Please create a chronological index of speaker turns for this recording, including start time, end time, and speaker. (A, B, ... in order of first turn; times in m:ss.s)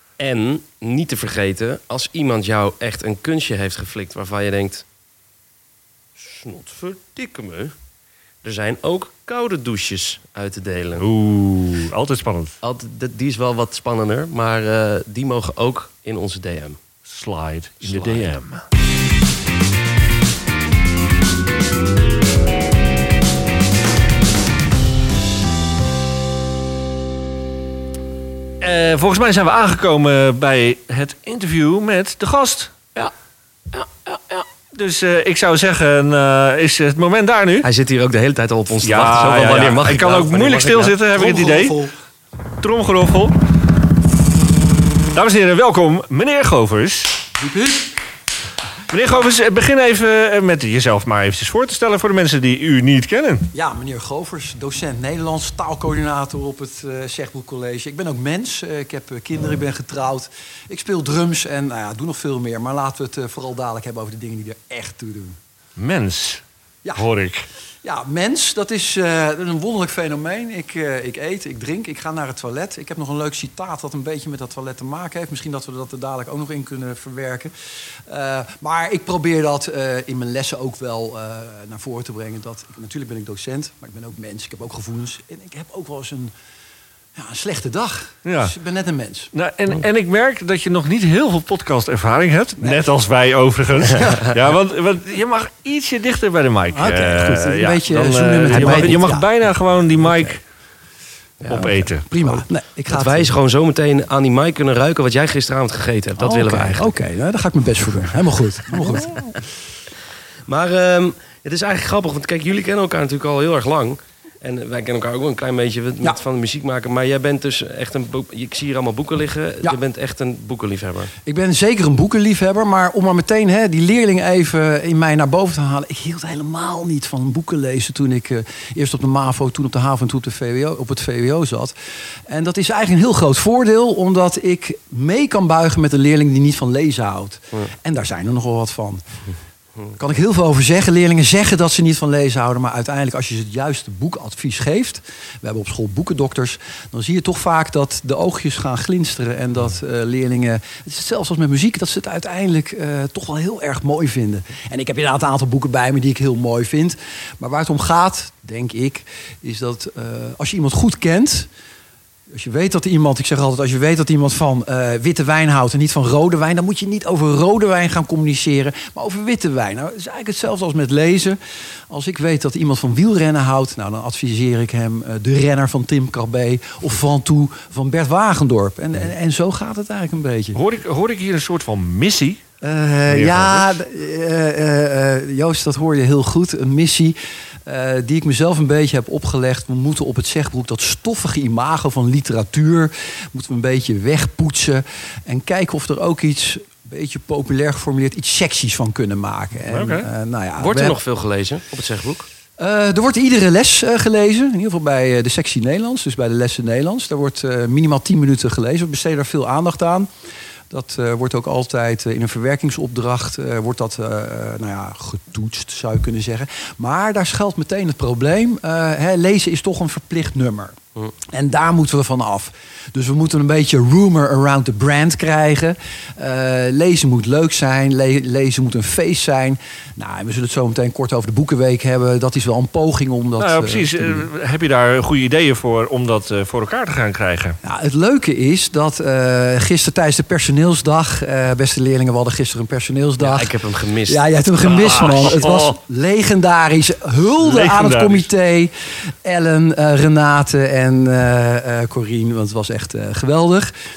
0:00.2-0:04.8 A
0:06.2-0:07.7 A
0:08.4-0:11.1 A
0:11.0-0:12.6 B
0:12.6-0:16.8 A
0:17.0-0:18.6 B
0:17.8-0:18.4 A
0:28.6-0:32.7 B
0:33.7-0:34.5 A
0:34.7-0:37.7 B
0:37.6-0:41.0 A
0:38.8-0:41.8 B
0:41.2-0:41.9 C
0:42.6-0:43.4 B
0:45.1-0:47.2 B
0:47.4-0:47.9 C
0:48.9-0:53.5 B
0:53.5-1:05.4 C
1:05.8-1:06.4 B
1:07.0-1:07.5 B
1:07.8-1:17.5 C
1:18.1-1:26.3 C
1:27.2-1:29.3 C
1:28.3-1:28.5 B
1:29.3-1:40.4 B
1:32.6-1:32.9 C
1:36.7-1:39.3 C
1:41.4-1:42.4 A
1:41.5-1:42.1 B
1:41.5-1:43.3 C
1:42.9-1:47.0 A
1:46.2-1:49.4 C
1:50.5-2:01.1 A
2:01.2-2:11.8 C
2:12.3-2:19.0 C
2:20.0-2:41.5 C
2:42.3-2:51.4 C
2:51.9-3:00.6 C
3:00.5-3:02.4 B
3:02.6-3:21.0 C
3:03.1-3:03.7 B
3:19.7-3:20.1 B
3:20.6-3:22.3 A
3:22.6-3:30.1 C
3:30.7-3:40.7 C
3:41.3-3:54.3 C
3:53.4-3:57.6 B
3:57.6-4:03.6 C
4:03.2-4:04.2 A
4:04.1-4:08.7 C
4:04.6-4:05.8 B
4:07.4-4:08.3 B
4:09.2-4:13.7 C